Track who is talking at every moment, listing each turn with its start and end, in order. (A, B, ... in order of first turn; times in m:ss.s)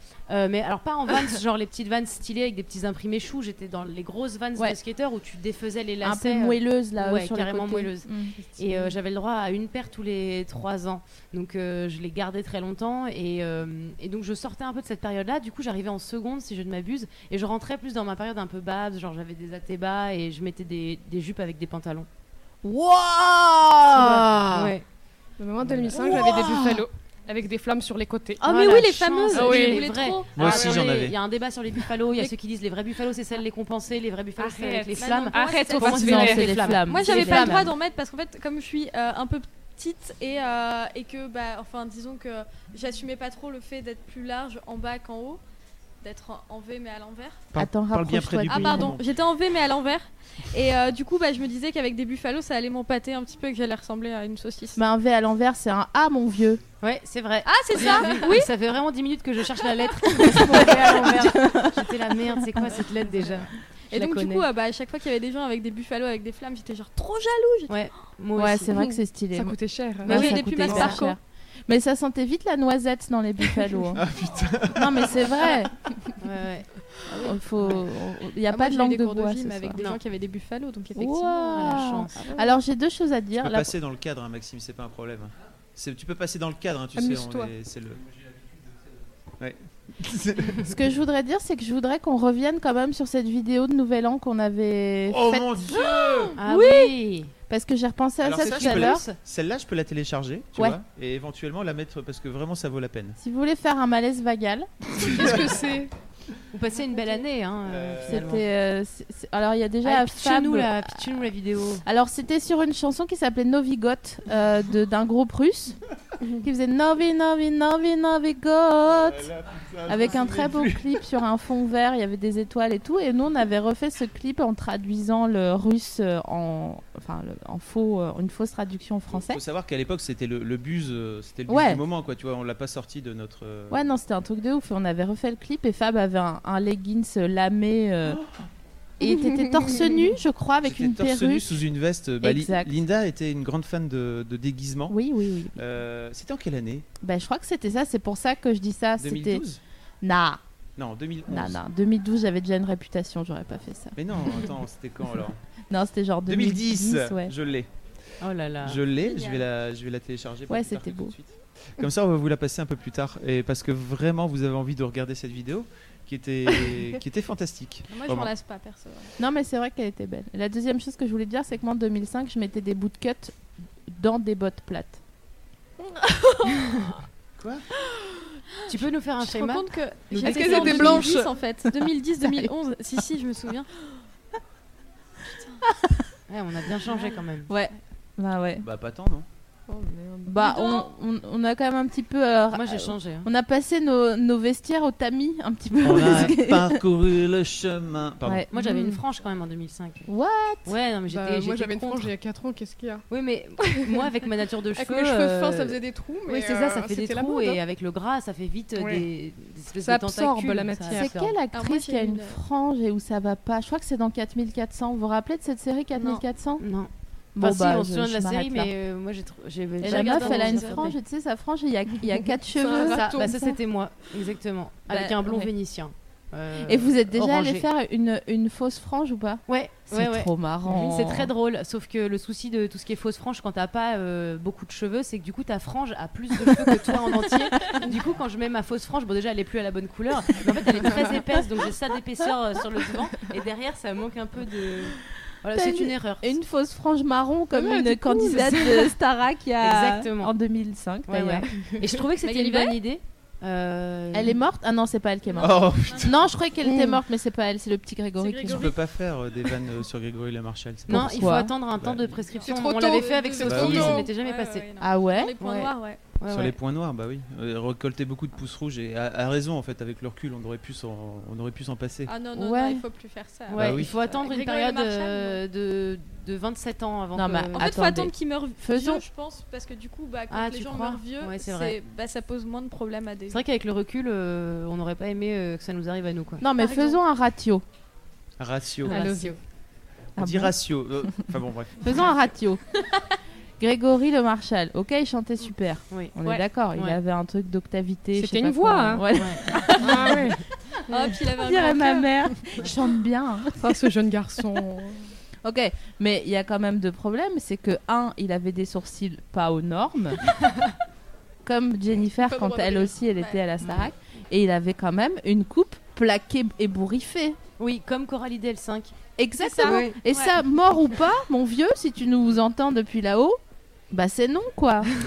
0:00.3-0:22.1 A
0:06.0-0:08.9 B
0:22.6-0:24.2 B
0:23.9-0:24.7 C
0:24.5-0:24.8 A
0:25.4-0:28.4 C
0:26.1-0:26.8 B
0:28.4-0:30.8 D
0:28.4-0:37.8 A
0:29.3-0:29.9 C
0:30.4-0:31.2 E
0:34.4-0:36.7 C
0:34.8-0:45.4 D
0:35.8-0:37.7 B
0:46.0-0:47.4 D
0:47.5-0:49.1 E
0:47.6-0:48.9 B
0:48.5-0:54.8 D
0:54.8-0:56.6 B
0:56.8-1:04.5 A
0:57.4-0:58.5 D
1:00.1-1:00.7 D
1:00.3-1:01.7 B
1:03.9-1:07.9 D
1:07.7-1:08.7 A
1:08.4-1:14.0 B
1:08.8-1:11.0 C
1:10.1-1:11.2 D
1:14.0-1:15.4 E
1:14.8-1:15.7 B
1:16.2-1:17.3 A
1:17.2-1:19.8 B
1:18.5-1:22.4 D
1:21.0-1:23.7 B
1:21.5-1:22.2 A
1:23.4-1:28.0 E
1:27.0-1:27.5 C
1:29.4-1:30.8 E
1:30.6-1:35.6 B
1:35.1-1:36.4 E
1:35.7-1:36.9 D
1:36.4-1:37.3 A
1:37.5-1:39.0 B
1:38.2-1:43.2 E
1:38.3-1:39.2 A
1:43.2-1:44.9 B
1:45.0-1:45.9 C
1:45.0-1:45.5 E
1:46.5-1:48.4 A
1:47.7-1:48.3 E
1:48.0-1:51.0 B
1:49.8-1:51.8 A
1:51.8-1:55.8 B
1:56.4-1:59.3 B
1:58.9-2:00.8 E
1:59.9-2:09.4 B
2:09.1-2:13.8 E
2:11.5-2:11.8 B
2:13.7-2:18.2 B
2:19.0-2:21.6 B
2:19.0-2:19.9 C
2:20.6-2:25.0 E
2:22.2-2:22.8 B
2:24.9-2:25.6 B
2:25.6-2:26.9 E
2:27.0-2:29.4 B
2:29.0-2:29.6 E
2:30.0-2:30.4 B
2:30.8-2:31.6 E
2:31.3-2:34.0 B
2:34.0-2:35.4 E
2:35.7-2:37.3 B
2:36.3-2:37.7 E
2:38.2-2:38.8 A
2:38.6-2:48.3 E
2:39.0-2:39.4 D
2:40.5-2:41.1 B
2:47.9-2:49.1 D
2:49.2-2:55.0 B
2:57.4-2:57.6 E
2:58.7-3:03.7 D
2:58.7-3:01.1 A
3:00.1-3:01.4 C
3:00.6-3:01.0 B
3:05.7-3:06.0 B
3:06.3-3:07.5 A
3:07.5-3:08.6 B
3:08.6-3:09.3 E
3:09.7-3:10.4 C
3:10.2-3:16.8 B
3:10.4-3:10.9 D
3:12.5-3:13.3 A
3:15.8-3:18.4 E
3:18.2-3:19.0 B
3:18.5-3:20.1 A
3:20.1-3:20.7 B
3:20.6-3:22.1 A
3:21.1-3:23.1 C
3:23.1-3:31.4 A
3:24.8-3:27.6 C
3:28.8-3:29.0 C
3:29.8-3:31.1 C
3:30.9-3:36.6 B
3:31.5-3:32.4 D
3:36.6-3:41.0 A
3:37.4-3:38.7 B
3:39.8-3:43.6 B
3:39.9-3:40.9 D
3:42.6-3:43.3 C
3:42.9-3:47.7 A
3:44.9-3:45.5 B
3:46.6-3:51.3 B
3:49.5-4:06.3 A
4:05.5-4:11.5 B
4:07.5-4:08.9 C
4:09.6-4:10.3 A
4:11.1-4:14.4 A
4:12.2-4:12.8 D
4:14.1-4:18.7 B
4:15.3-4:16.1 D
4:15.4-4:16.3 E
4:16.6-4:17.0 C
4:18.2-4:18.8 D
4:18.5-4:22.1 E
4:20.9-4:24.7 A
4:20.9-4:21.5 B
4:22.3-4:26.0 D
4:22.5-4:24.1 C
4:23.4-4:24.0 E
4:24.8-4:25.3 B
4:25.4-4:26.6 A
4:26.3-4:32.1 E
4:32.1-4:35.4 D
4:32.3-4:32.8 B
4:33.5-4:37.8 A
4:33.5-4:33.9 E
4:37.2-4:39.0 B
4:37.5-4:43.4 D
4:40.3-4:41.8 A
4:43.3-4:46.4 A
4:46.4-4:47.6 B
4:46.6-4:47.0 D
4:48.4-4:49.0 E
4:48.8-4:49.4 C
4:48.9-4:49.4 A
4:50.2-4:50.6 B
4:50.2-4:52.1 E
4:51.8-4:52.6 B
4:53.6-5:00.3 B
4:55.9-4:56.2 A
4:58.2-4:59.0 C
4:59.1-5:00.3 A
4:59.8-5:00.4 C
5:00.9-5:02.3 D
5:01.0-5:03.7 B
5:03.6-5:05.1 C
5:05.4-5:10.2 B
5:11.4-5:17.4 B
5:12.2-5:13.0 C
5:13.6-5:13.9 A
5:17.6-5:18.9 A
5:19.2-5:23.4 B
5:19.4-5:20.3 D
5:19.6-5:19.9 C
5:23.9-5:24.9 B